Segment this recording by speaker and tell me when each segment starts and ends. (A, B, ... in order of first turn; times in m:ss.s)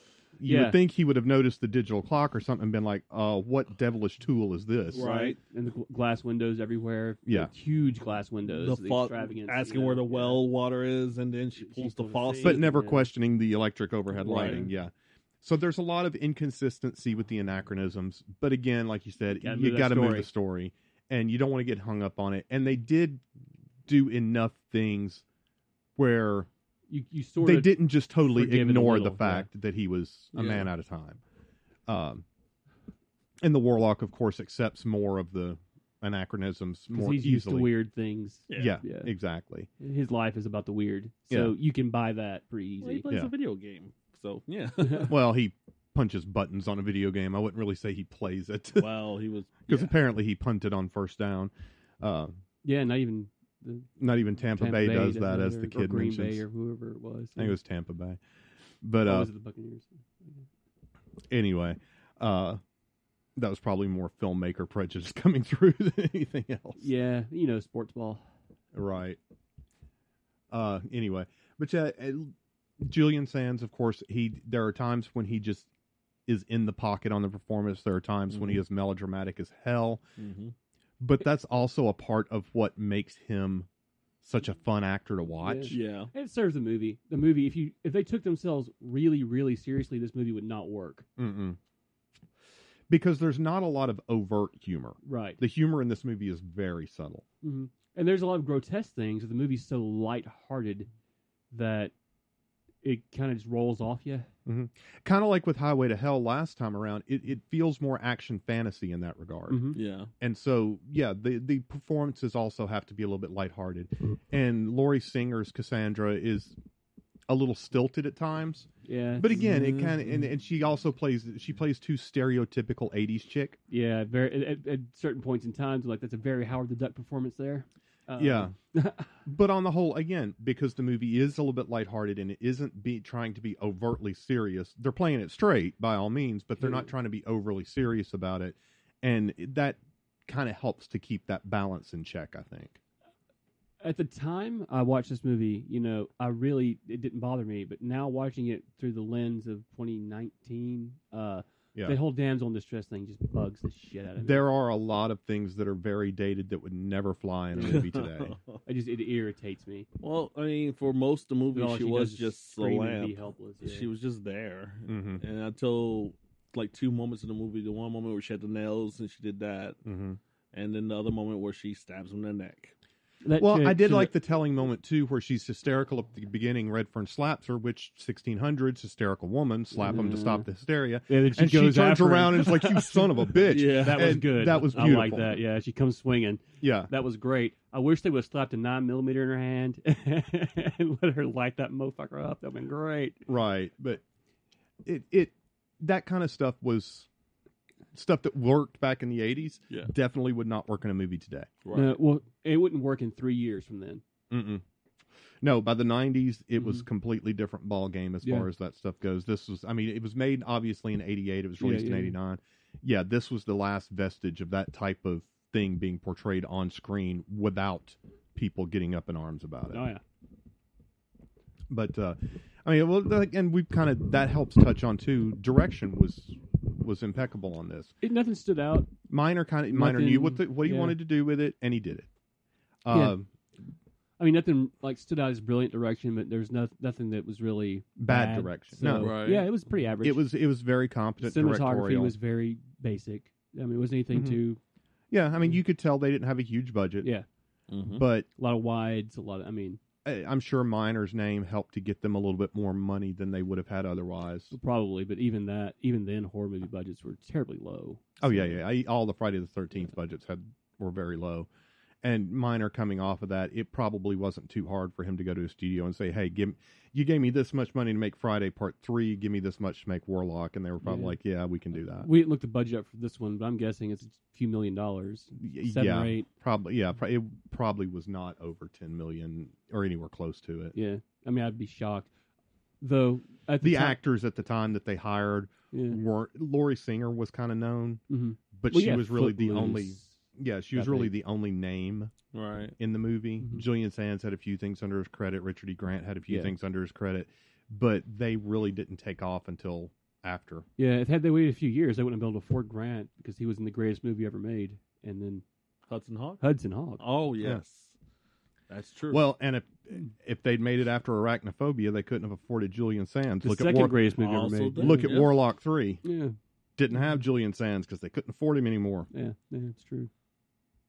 0:00.4-0:05.0 A
0:00.4-0:00.8 B
0:04.9-0:05.4 C
0:04.9-0:10.4 B
0:07.2-0:07.5 A
0:08.5-0:12.7 C
0:11.6-0:13.1 B
0:12.4-0:23.2 A
0:14.2-0:14.7 B
0:14.2-0:14.6 C
0:19.4-0:20.3 B
0:23.9-0:25.2 A
0:26.0-0:26.5 A
0:26.9-0:29.5 B
0:27.4-0:31.2 A
0:30.3-0:30.6 C
0:31.9-0:32.2 A
0:33.4-0:37.7 A
0:36.9-0:39.1 B
0:38.5-0:38.8 C
0:38.5-0:39.7 A
0:39.8-0:43.0 B
0:42.8-0:45.2 C
0:45.0-0:48.9 A
0:48.8-0:49.9 C
0:49.7-0:52.3 A
0:52.6-0:53.9 B
0:54.0-0:56.4 A
0:54.5-0:57.6 B
0:57.4-0:58.2 A
0:58.8-0:59.3 A
0:59.0-1:00.4 B
1:01.3-1:02.6 A
1:03.4-1:06.9 A
1:06.8-1:08.2 B
1:08.7-1:09.2 A
1:10.5-1:15.7 A
1:16.3-1:20.0 A
1:18.3-1:18.6 C
1:20.2-1:20.5 C
1:21.0-1:23.7 A
1:24.2-1:25.7 A
1:25.4-1:31.0 B
1:25.7-1:26.1 C
1:31.2-1:31.6 A
1:32.9-1:37.2 A
1:35.0-1:35.4 B
1:37.4-1:40.9 B
1:41.5-1:41.9 B
1:42.8-1:44.3 B
1:44.4-1:49.7 A
1:49.5-1:49.8 B
1:49.7-1:50.1 C
1:50.2-1:56.6 A
1:57.3-2:03.6 A
1:58.8-1:59.4 B
1:59.3-2:00.2 C
2:03.7-2:09.1 B
2:08.2-2:08.5 A
2:09.2-2:22.8 A
2:16.6-2:16.9 B
2:23.8-2:34.5 B
2:34.2-2:38.4 A
2:37.6-2:37.8 B
2:37.6-2:38.6 C
2:38.6-2:39.9 B
2:40.0-2:49.8 C
2:41.5-2:43.9 B
2:44.9-2:45.2 A
2:49.8-2:50.2 A
2:50.5-2:52.7 C
2:53.2-2:54.1 B
2:53.4-3:05.4 A
2:59.7-3:00.5 B
3:01.1-3:13.2 B
3:03.3-3:04.2 C
3:06.6-3:06.9 A
3:13.3-3:14.0 A
3:14.8-3:17.1 A
3:17.9-3:21.5 A
3:21.6-3:22.0 C
3:21.7-3:24.0 B
3:24.3-3:24.6 A
3:25.4-3:39.8 A
3:31.6-3:32.2 B
3:39.7-3:40.0 B
3:41.7-3:47.9 A
3:48.0-3:48.9 B
3:49.1-3:52.1 A
3:49.7-3:51.0 B
3:52.8-3:53.3 A
3:52.9-3:53.2 B
3:54.2-4:00.2 B
3:58.0-3:59.2 A
3:58.9-3:59.5 C
4:00.0-4:02.1 A
4:01.2-4:04.6 B
4:04.1-4:04.4 A
4:05.1-4:07.1 A
4:07.7-4:08.0 C
4:07.9-4:08.3 A
4:08.4-4:09.8 B
4:10.0-4:14.5 A
4:14.5-4:18.6 B
4:18.2-4:21.5 A
4:22.0-4:32.1 A
4:30.8-4:31.2 B
4:31.8-4:36.3 B
4:35.4-4:40.7 A
4:40.7-4:42.1 B
4:42.8-4:44.0 B
4:43.6-4:48.0 A
4:45.7-4:46.0 B
4:48.1-4:50.2 B
4:48.5-4:52.1 A
4:50.7-4:51.1 B
4:52.3-4:52.7 C
4:52.8-5:00.7 A
5:00.8-5:05.4 B
5:05.9-5:06.4 C
5:06.4-5:07.0 B
5:07.0-5:07.9 C
5:08.7-5:09.2 C
5:09.1-5:14.0 A
5:13.4-5:15.2 B
5:14.2-5:15.4 C
5:14.8-5:16.0 A
5:16.0-5:16.3 B
5:16.8-5:19.1 A
5:19.1-5:20.1 B